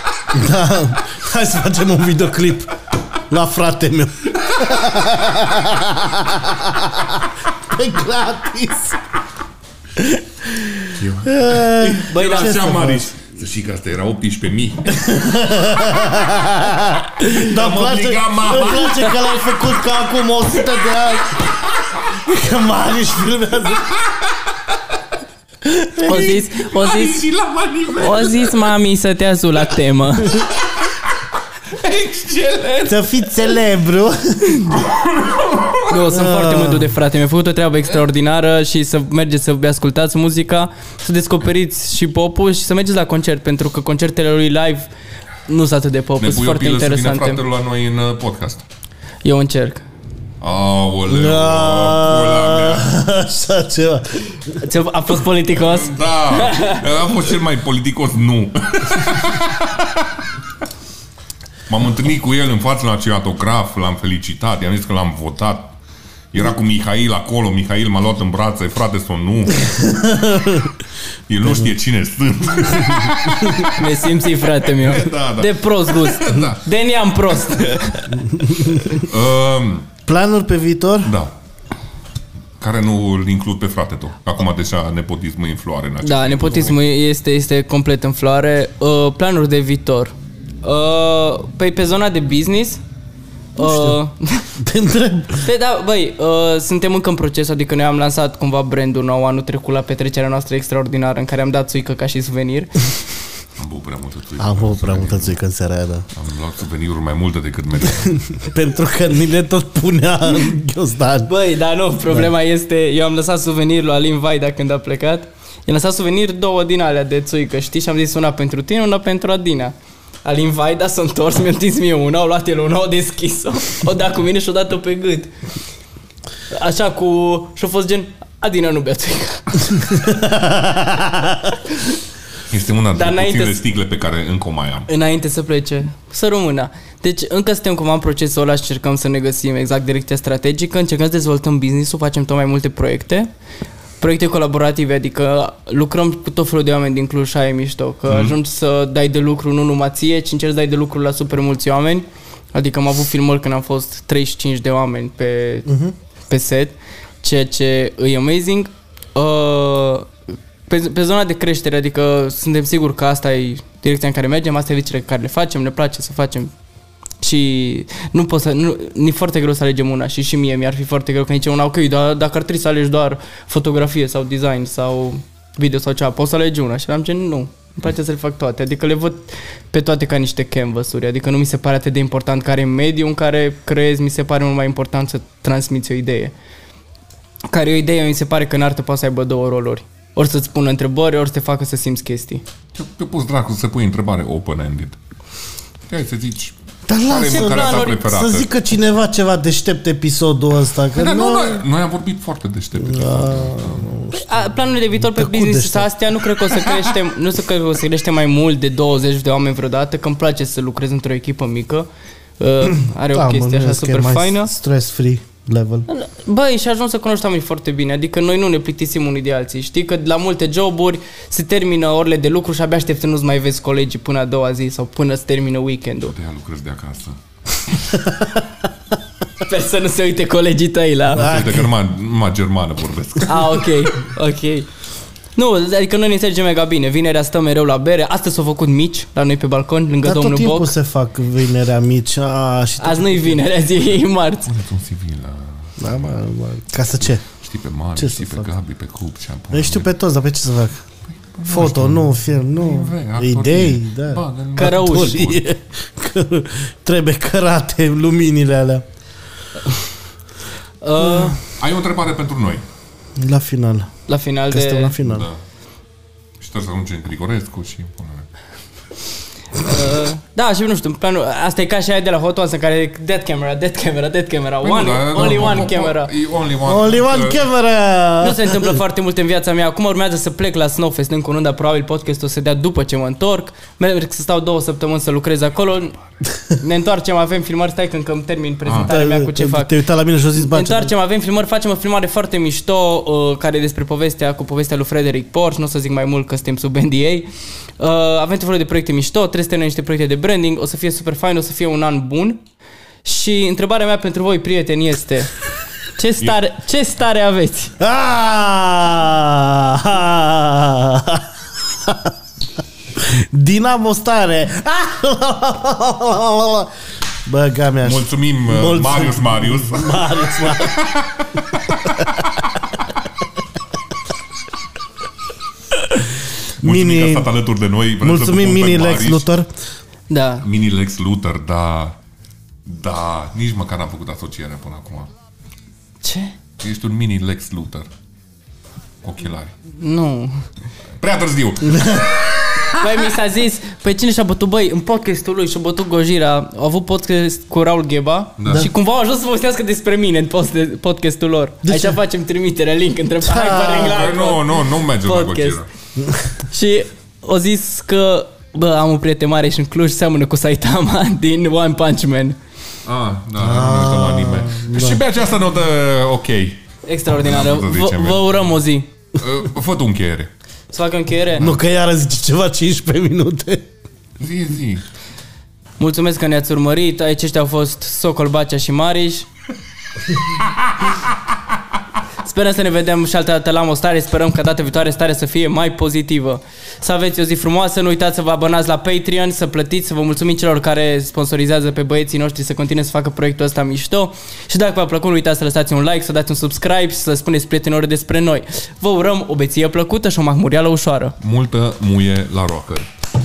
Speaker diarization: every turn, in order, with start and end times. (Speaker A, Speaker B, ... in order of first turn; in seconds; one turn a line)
Speaker A: 0.3-2.7
Speaker A: 3.3-9.0
Speaker A: 10.0-13.1
Speaker B: 11.0-15.1
Speaker C: 12.1-12.8
Speaker A: 14.9-21.4
Speaker B: 17.3-19.4
Speaker A: 22.1-23.9
Speaker B: 26.0-28.6
Speaker C: 26.0-27.2
Speaker C: 28.0-30.5
Speaker B: 31.7-33.2
Speaker A: 32.9-34.8
Speaker B: 34.8-35.9
Speaker C: 35.9-44.9
Speaker A: 36.1-37.0
Speaker C: 45.5-47.4
Speaker B: 46.2-48.6
Speaker C: 49.2-49.9
Speaker B: 50.4-52.9
Speaker A: 51.1-54.6
Speaker C: 54.6-56.8
Speaker B: 55.5-60.1
Speaker B: 61.7-65.8
Speaker B: 66.3-70.0
Speaker A: 69.8-70.7
Speaker B: 71.3-76.6
Speaker C: 73.6-78.2
Speaker A: 78.3-79.0
Speaker B: 78.7-79.9
Speaker A: 80.1-81.1
Speaker B: 81.0-81.3
Speaker B: 82.6-86.8
Speaker C: 86.0-92.8
Speaker C: 93.6-94.5
Speaker A: 93.6-94.0
Speaker A: 94.6-95.5
Speaker C: 95.4-103.0
Speaker B: 103.6-105.4
Speaker A: 104.4-106.1
Speaker B: 106.1-108.5
Speaker A: 108.4-111.3
Speaker C: 111.3-119.7
Speaker C: 120.2-125.3
Speaker C: 126.5-129.9
Speaker A: 129.8-131.5
Speaker B: 132.5-134.9
Speaker C: 132.9-133.6
Speaker C: 134.9-143.3
Speaker C: 144.0-155.7
Speaker B: 148.1-148.4
Speaker A: 155.7-155.9
Speaker C: 156.3-160.1
Speaker C: 160.7-166.5
Speaker C: 167.2-186.3
Speaker C: 187.5-192.4
Speaker B: 192.8-195.0
Speaker B: 195.9-198.5
Speaker A: 196.9-201.7
Speaker C: 197.2-198.0
Speaker B: 200.9-204.1
Speaker A: 202.8-205.9
Speaker C: 204.1-211.9
Speaker B: 206.6-206.9
Speaker C: 212.4-214.5
Speaker A: 213.1-215.9
Speaker C: 215.9-226.2
Speaker B: 226.1-227.2
Speaker C: 229.4-231.4
Speaker B: 231.2-233.8
Speaker A: 231.2-231.7
Speaker C: 233.3-234.7
Speaker C: 235.4-240.7
Speaker A: 240.0-243.4
Speaker C: 242.8-244.5
Speaker B: 244.5-246.1
Speaker A: 245.8-247.2
Speaker B: 247.4-249.9
Speaker A: 248.0-248.5
Speaker A: 249.5-250.8
Speaker B: 251.3-255.4
Speaker A: 251.5-258.9
Speaker C: 254.6-255.2
Speaker C: 260.8-261.4
Speaker B: 261.4-262.6
Speaker A: 263.2-263.9
Speaker C: 264.1-265.0
Speaker A: 264.5-265.3
Speaker B: 265.0-265.4
Speaker B: 266.4-268.3
Speaker C: 269.6-276.1
Speaker B: 274.6-277.4
Speaker A: 276.6-278.8
Speaker C: 278.2-286.0
Speaker C: 286.6-289.8
Speaker B: 288.7-288.9
Speaker A: 288.9-290.9
Speaker C: 290.4-297.3
Speaker C: 297.8-302.4
Speaker C: 303.0-305.3
Speaker C: 305.9-307.7
Speaker A: 307.8-312.1
Speaker A: 313.0-316.7
Speaker A: 317.3-320.8
Speaker B: 317.8-321.8
Speaker A: 322.0-322.3
Speaker A: 326.6-327.3
Speaker B: 326.6-329.3
Speaker A: 328.0-329.5
Speaker C: 330.1-330.5
Speaker B: 330.4-332.0
Speaker B: 332.6-335.1
Speaker C: 336.0-336.4
Speaker B: 336.6-337.9
Speaker B: 339.0-339.5
Speaker C: 339.7-340.5
Speaker B: 341.0-342.8
Speaker A: 341.7-342.1
Speaker C: 342.7-355.6
Speaker B: 348.4-348.7
Speaker A: 351.6-352.0
Speaker A: 353.2-354.1
Speaker B: 353.8-355.7
Speaker A: 356.0-356.4
Speaker C: 356.5-362.4
Speaker B: 362.9-366.6
Speaker A: 363.4-365.0
Speaker C: 366.9-368.9
Speaker B: 367.1-368.3
Speaker B: 369.2-370.3
Speaker C: 370.7-371.4
Speaker A: 371.4-373.7
Speaker B: 374.2-374.9
Speaker C: 375.8-379.3
Speaker C: 382.2-401.2
Speaker B: 401.2-402.9